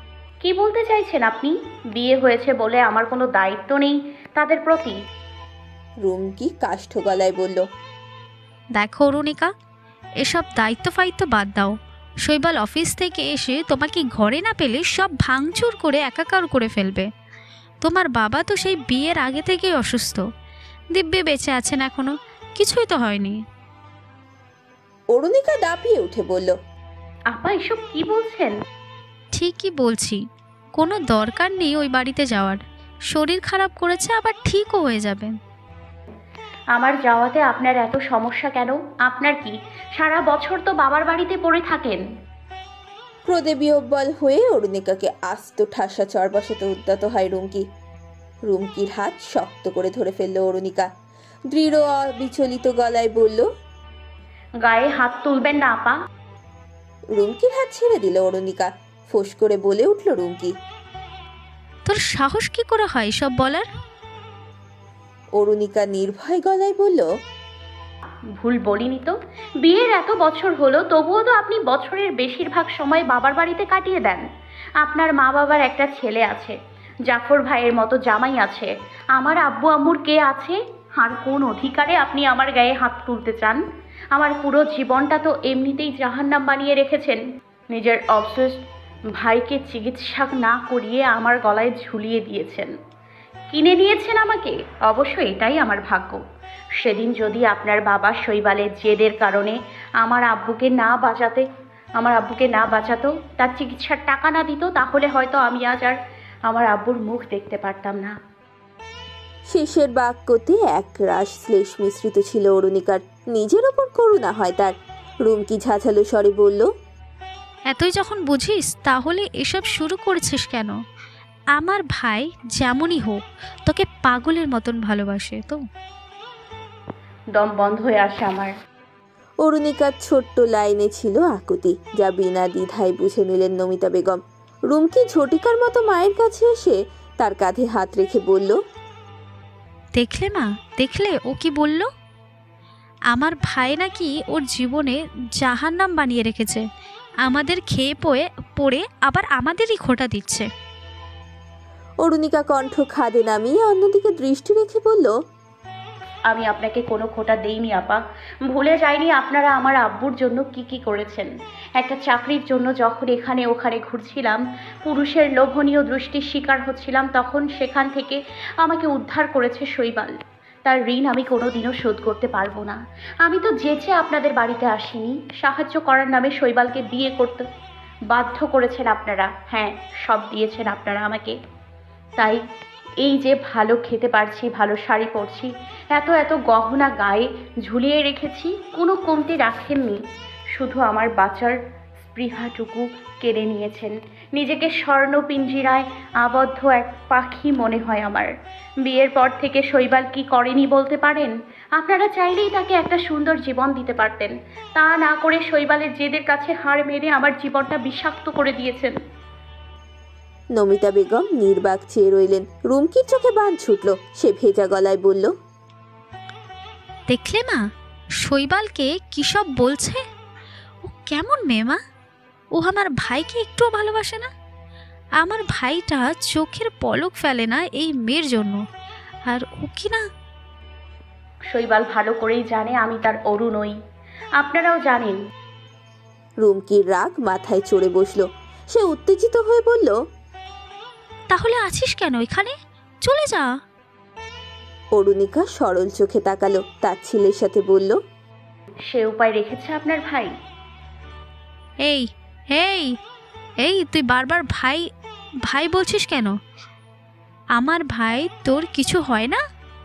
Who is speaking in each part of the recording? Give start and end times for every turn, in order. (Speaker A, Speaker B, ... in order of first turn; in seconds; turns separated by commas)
Speaker A: 0.4-5.0, Speaker B: 6.0-7.6, Speaker C: 8.8-9.5, Speaker C: 10.2-17.1, Speaker C: 17.8-20.2, Speaker C: 20.9-23.4, Speaker B: 25.1-26.6, Speaker A: 27.3-28.6, Speaker C: 29.3-30.2, Speaker C: 30.8-35.4, Speaker A: 36.7-42.0, Speaker B: 43.3-47.7, Speaker B: 48.5-50.9, Speaker B: 51.5-53.5, Speaker A: 54.6-56.0, Speaker B: 57.2-60.5, Speaker C: 61.9-63.7, Speaker B: 65.4-67.1, Speaker A: 68.4-74.3, Speaker A: 74.8-83.6, Speaker A: 84.1-88.6, Speaker A: 89.2-92.7, Speaker A: 93.5-96.2, Speaker A: 96.8-101.5, Speaker A: 102.0-108.1, Speaker B: 109.5-116.7, Speaker C: 117.7-120.7, Speaker C: 121.6-125.6, Speaker A: 127.3-128.5, Speaker B: 129.4-138.6, Speaker C: 140.0-141.9, Speaker C: 143.1-146.6, Speaker C: 147.2-150.5, Speaker B: 152.0-155.1, Speaker A: 156.3-177.5, Speaker A: 178.1-181.4, Speaker A: 183.0-190.0, Speaker A: 190.6-198.3, Speaker A: 198.8-208.9, Speaker B: 210.5-215.3, Speaker C: 217.1-217.6, Speaker C: 218.2-220.0, Speaker C: 220.8-221.8, Speaker C: 222.6-224.3, Speaker C: 225.2-228.6, Speaker C: 229.3-230.0, Speaker A: 231.5-233.8, Speaker A: 234.4-235.2, Speaker B: 236.4-240.0, Speaker C: 241.3-243.5, Speaker B: 244.9-248.0, Speaker A: 248.9-250.3, Speaker C: 251.9-252.9, Speaker C: 253.6-254.8, Speaker C: 255.5-256.3, Speaker C: 257.6-259.4